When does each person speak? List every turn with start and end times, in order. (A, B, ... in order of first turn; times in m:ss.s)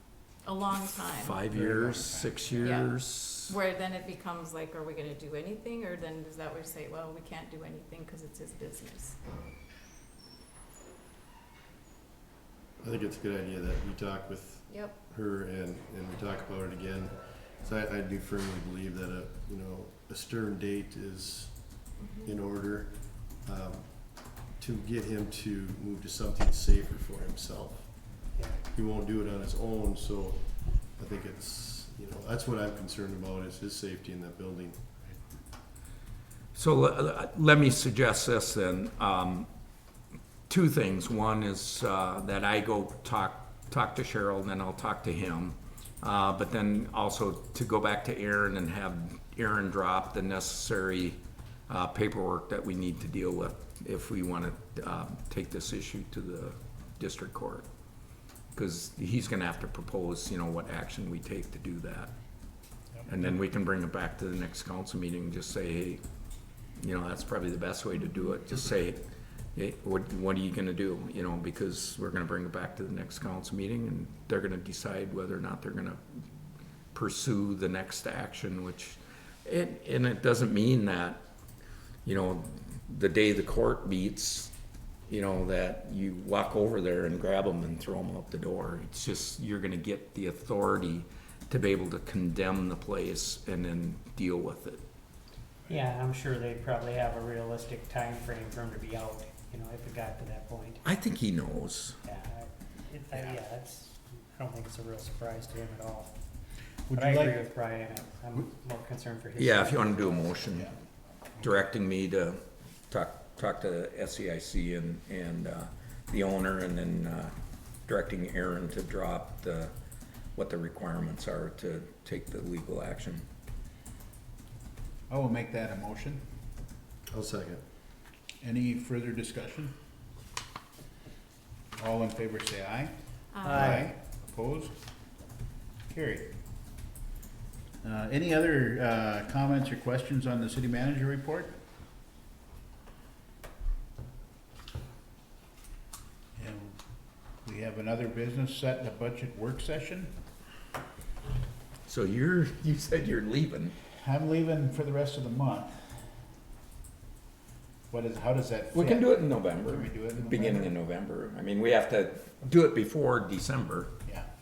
0:00.4-0:01.4 A
0:01.0-0:03.5 B
0:01.5-0:02.7 C
0:02.6-0:09.2 A
0:09.2-0:09.6 D
0:12.8-0:35.0 D
0:14.7-0:15.0 A
0:22.0-0:22.3 A
0:36.5-0:39.5 B
0:40.5-0:57.6 B
0:58.5-1:02.1 B
1:03.0-1:06.0 B
1:06.8-1:09.0 B
1:09.5-1:16.0 B
1:16.9-1:21.2 B
1:22.0-1:24.5 B
1:25.1-1:34.8 B
1:35.7-1:40.8 E
1:40.8-1:42.0 B
1:42.0-1:46.1 E
1:46.9-1:47.4 C
1:46.9-1:50.4 E
1:49.4-1:50.8 B
1:50.5-1:50.8 C
1:51.4-1:57.3 B
1:57.8-1:59.7 B
2:00.3-2:03.2 B
2:05.1-2:06.2 C
2:07.1-2:07.6 D
2:08.4-2:09.7 C
2:11.8-2:14.8 C
2:13.3-2:13.8 A
2:13.4-2:13.9 E
2:15.9-2:16.3 C
2:17.8-2:21.6 C
2:26.4-2:26.8 C
2:27.4-2:30.2 C
2:31.8-2:33.7 B
2:34.0-2:35.9 C
2:37.9-2:40.7 C
2:38.7-2:44.0 B